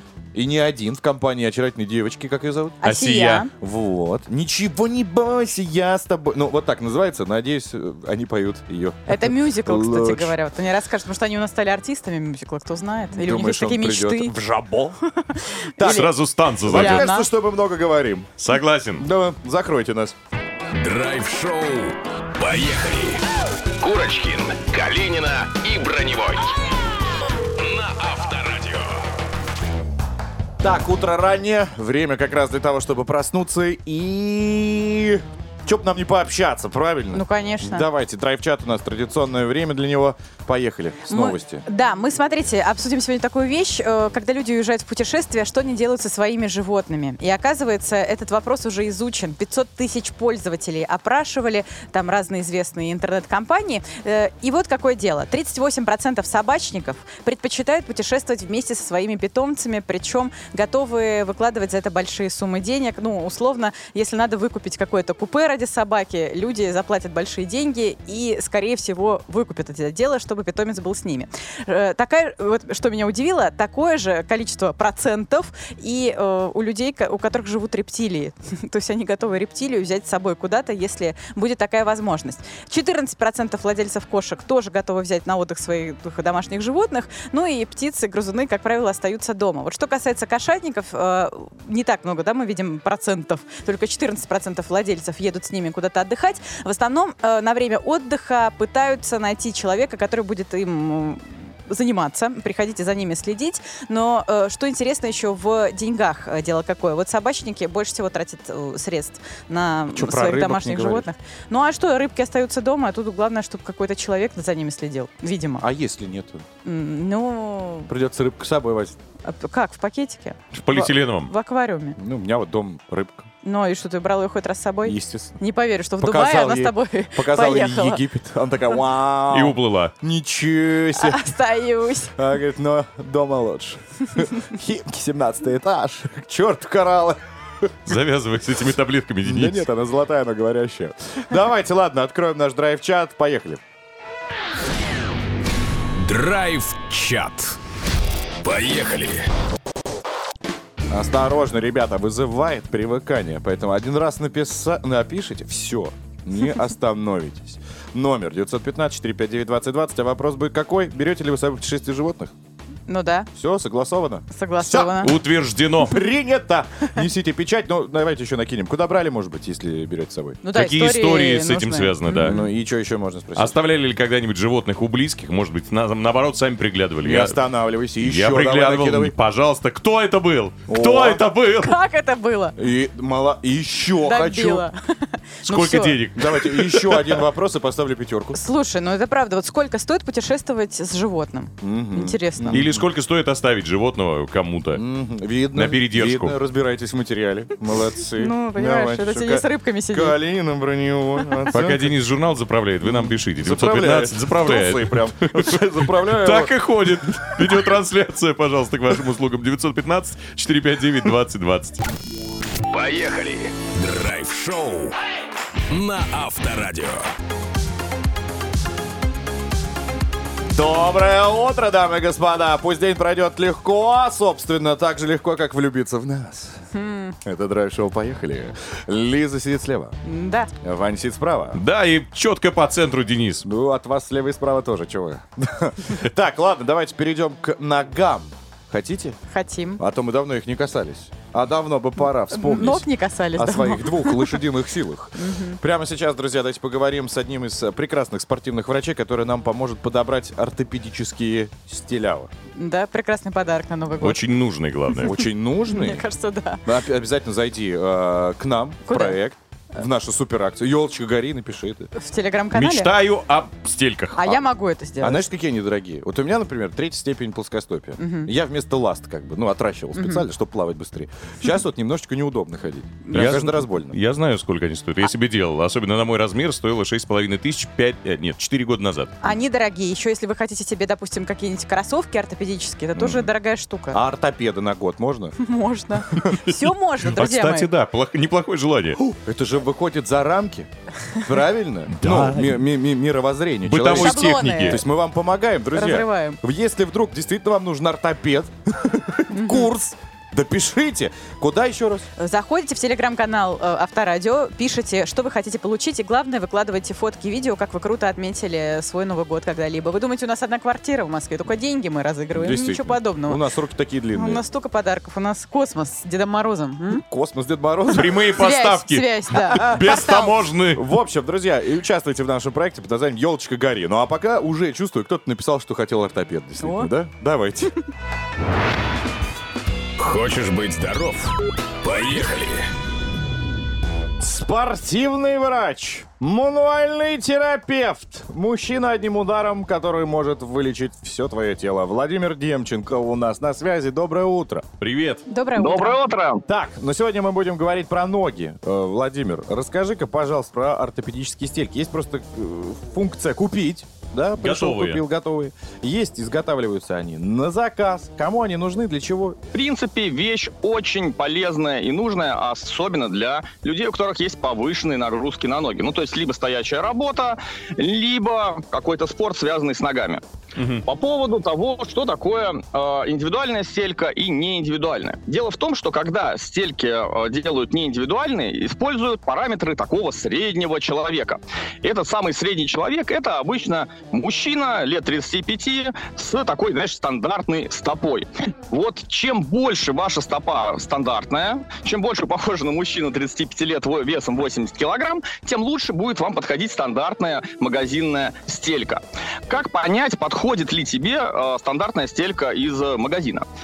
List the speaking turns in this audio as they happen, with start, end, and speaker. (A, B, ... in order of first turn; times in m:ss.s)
0:00.3-0:02.9 A
0:02.8-0:03.5 B
0:02.8-0:03.5 C
0:03.6-0:10.4 A
0:09.1-0:14.4 B
0:13.1-0:15.0 A
0:15.2-0:17.2 B
0:15.8-0:18.3 A
0:15.8-0:17.1 C
0:18.4-0:19.0 C
0:19.0-0:20.2 A
0:20.7-0:23.2 D
0:23.8-0:26.6 D
0:27.5-0:29.0 D
0:30.6-0:41.6 A
0:37.1-0:37.9 B
0:41.1-1:55.6 B
1:49.9-1:51.1 A
1:55.6-1:56.4 A
1:56.6-1:57.9 B
1:57.9-1:59.0 A
1:59.2-2:02.0 B
2:00.5-2:01.3 C
2:02.0-2:03.3 A
2:03.4-2:08.0 B
2:04.8-2:05.4 A
2:06.0-2:11.2 A
2:09.3-2:09.9 C
2:11.0-2:12.1 B
2:12.2-2:17.6 A
2:17.9-2:19.6 C
2:19.2-2:23.6 A
2:25.9-2:27.6 D
2:28.4-2:29.2 D
2:30.9-2:42.3 A
2:42.9-2:43.3 B
2:43.3-2:45.0 A
2:44.3-2:45.2 B
2:45.0-2:46.0 C
2:45.8-2:50.4 A
2:50.4-2:52.5 B
2:50.5-2:52.4 C
2:52.1-2:53.6 A
2:53.4-2:57.4 C
2:57.0-2:59.1 A
2:58.0-3:01.8 C
3:00.7-3:01.2 A
3:01.6-3:02.6 B
3:02.6-3:04.6 A
3:04.0-3:06.0 B
3:05.4-3:07.1 C
3:06.1-3:08.4 A
3:08.3-3:12.6 B
3:11.6-3:12.9 A
3:12.5-3:14.8 C
3:14.7-3:21.9 A
3:15.5-3:16.3 C
3:18.2-3:20.1 B
3:21.5-3:31.8 C
3:22.8-3:26.5 A
3:32.7-3:34.9 D
3:35.7-3:37.0 D
3:40.5-3:46.6 A
3:46.7-3:47.2 B
3:47.2-3:49.9 A
3:50.0-3:50.5 B
3:50.6-3:51.6 A
3:51.6-3:53.4 C
3:53.4-3:59.2 A
3:59.3-3:59.8 B
3:59.8-4:12.3 A
4:02.3-4:04.4 B
4:05.2-4:05.6 B
4:12.5-4:14.2 B
4:14.0-4:15.2 C
4:15.0-4:16.0 A
4:15.6-4:16.6 B
4:16.6-4:21.9 A
4:18.9-4:19.2 B
4:21.9-4:22.9 B
4:22.5-4:24.3 C
4:24.1-4:25.2 B
4:25.0-4:34.0 A
4:28.0-4:28.3 B
4:29.9-4:30.2 B
4:33.1-4:33.4 B
4:33.1-4:39.2 C
4:39.2-4:44.0 B
4:42.9-4:43.3 A
4:43.9-4:45.4 A
4:45.4-4:47.7 B
4:46.2-4:49.0 C
4:49.0-4:50.7 A
4:51.2-5:02.1 A
4:51.9-4:52.6 C
4:53.6-4:54.8 C
4:53.9-4:54.8 B
4:55.7-4:56.4 B
4:59.3-4:59.7 B
5:02.2-5:13.4 B
5:12.3-5:14.4 A
5:14.1-5:17.0 B
5:16.9-5:18.3 A
5:17.9-5:20.8 C
5:18.2-5:20.4 B
5:19.5-5:19.8 A
5:20.7-5:27.7 A
5:26.6-5:26.9 B
5:30.0-5:32.6 D
5:34.2-5:44.7 A
5:44.8-5:45.2 C
5:45.3-5:46.0 B
5:45.6-5:46.4 E
5:46.5-5:59.4 A
5:54.4-5:55.0 C
5:59.5-6:10.2 E
6:10.6-6:10.8 C
6:10.8-6:43.4 E